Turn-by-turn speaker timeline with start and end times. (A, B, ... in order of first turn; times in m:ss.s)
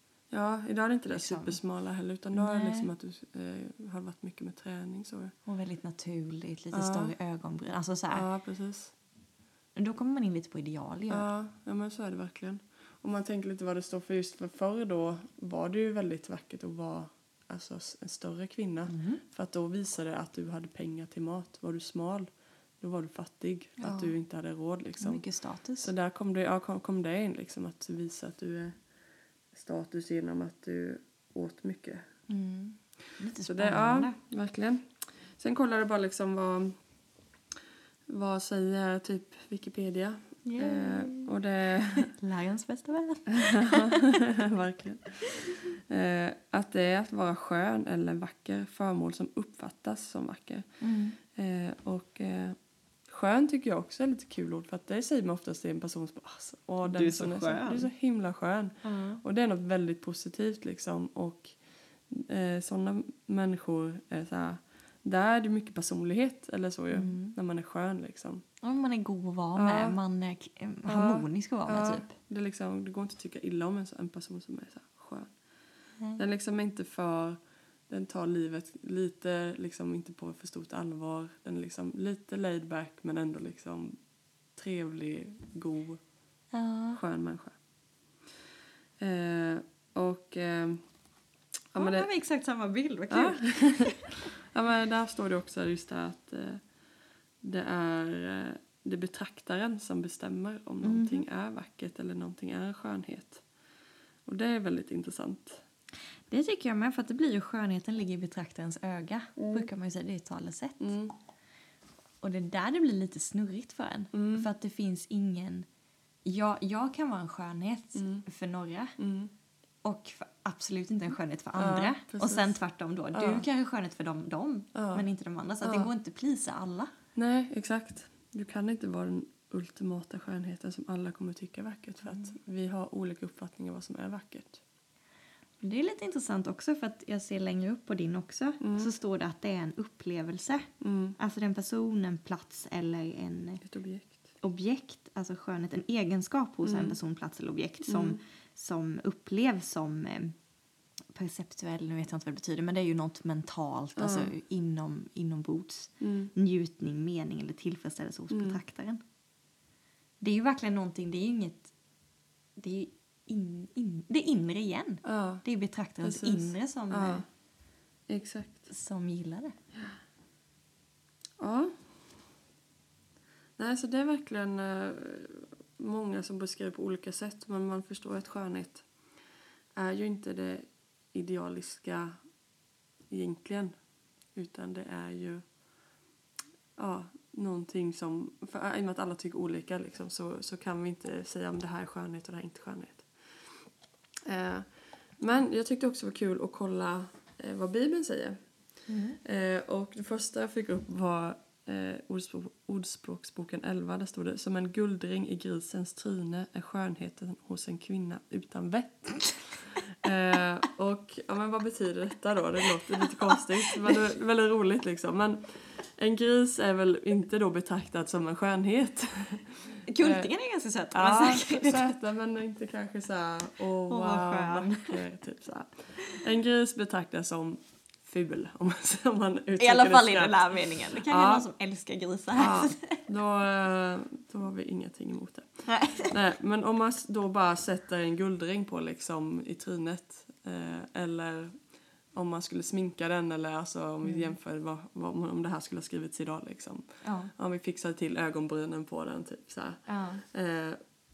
0:00.3-0:05.3 A
0:01.1-0:01.6 B
0:02.3-0:02.9 B
0:05.4-0:08.2 B
0:06.7-0:07.1 A
0:08.1-0:08.9 A
0:09.8-0:11.3 B
0:11.1-0:22.3 A
0:18.9-0:19.2 B
0:22.8-0:25.2 A
0:23.8-0:24.1 B
0:25.0-0:25.9 B
0:25.8-0:28.8 A
0:29.5-0:32.0 A
0:32.3-0:34.2 B
0:33.4-0:36.7 A
0:38.1-0:42.1 A
0:40.4-0:41.3 B
0:41.9-0:44.2 B
0:43.4-0:50.6 A
0:50.8-0:51.2 B
0:51.3-0:52.6 A
0:53.1-1:01.5 A
0:56.8-0:57.9 B
0:58.8-0:59.2 B
1:02.1-1:08.4 A
1:06.9-1:07.4 B
1:08.6-1:12.1 B
1:09.6-1:10.0 A
1:10.8-1:15.3 A
1:16.2-1:17.4 A
1:17.9-1:24.0 A
1:24.5-1:26.0 A
1:26.5-1:27.0 B
1:26.9-1:27.6 A
1:29.0-1:30.8 A
1:31.7-1:32.1 A
1:31.8-1:34.2 B
1:33.1-1:36.6 A
1:37.4-1:43.4 A
1:40.8-1:41.2 B
1:44.2-1:45.6 A
1:46.3-1:50.9 B
1:49.4-1:49.7 A
1:50.8-1:51.1 A
1:52.2-1:55.6 B
1:54.1-1:54.5 A
1:56.2-1:59.0 B
1:58.0-1:58.2 A
1:59.0-1:59.3 A
1:59.8-2:06.9 B
2:01.6-2:02.6 A
2:03.1-2:03.4 A
2:04.7-2:05.0 A
2:05.6-2:05.9 A
2:07.2-2:14.6 A
2:15.6-2:23.6 B
2:18.6-2:18.9 A
2:20.8-2:21.2 A
2:23.6-2:24.2 A
2:24.4-2:30.3 B
2:26.6-2:27.0 A
2:27.8-2:28.2 A
2:31.1-2:39.0 B
2:34.0-2:34.3 A
2:36.0-2:36.3 A
2:38.3-2:38.6 A
2:40.2-2:41.7 B
2:42.6-2:47.2 B
2:45.0-2:45.4 A
2:46.0-2:47.2 A
2:48.1-2:48.7 A
2:48.7-2:49.5 B
2:51.4-2:51.7 A
2:53.6-2:58.8 A
2:59.8-3:02.2 A
3:03.1-3:03.7 A
3:04.3-3:05.4 A
3:06.8-3:13.1 A
3:14.2-3:18.4 A
3:18.9-3:19.2 B
3:19.2-3:40.3 A
3:33.0-3:33.9 B
3:39.9-3:42.0 B
3:40.9-3:51.4 A
3:43.9-3:45.0 B
3:49.6-3:53.0 B
3:52.3-4:01.6 A
3:55.7-3:56.1 B
4:02.1-4:10.8 A
4:04.0-4:04.3 B
4:07.0-4:07.3 B
4:09.9-4:10.2 B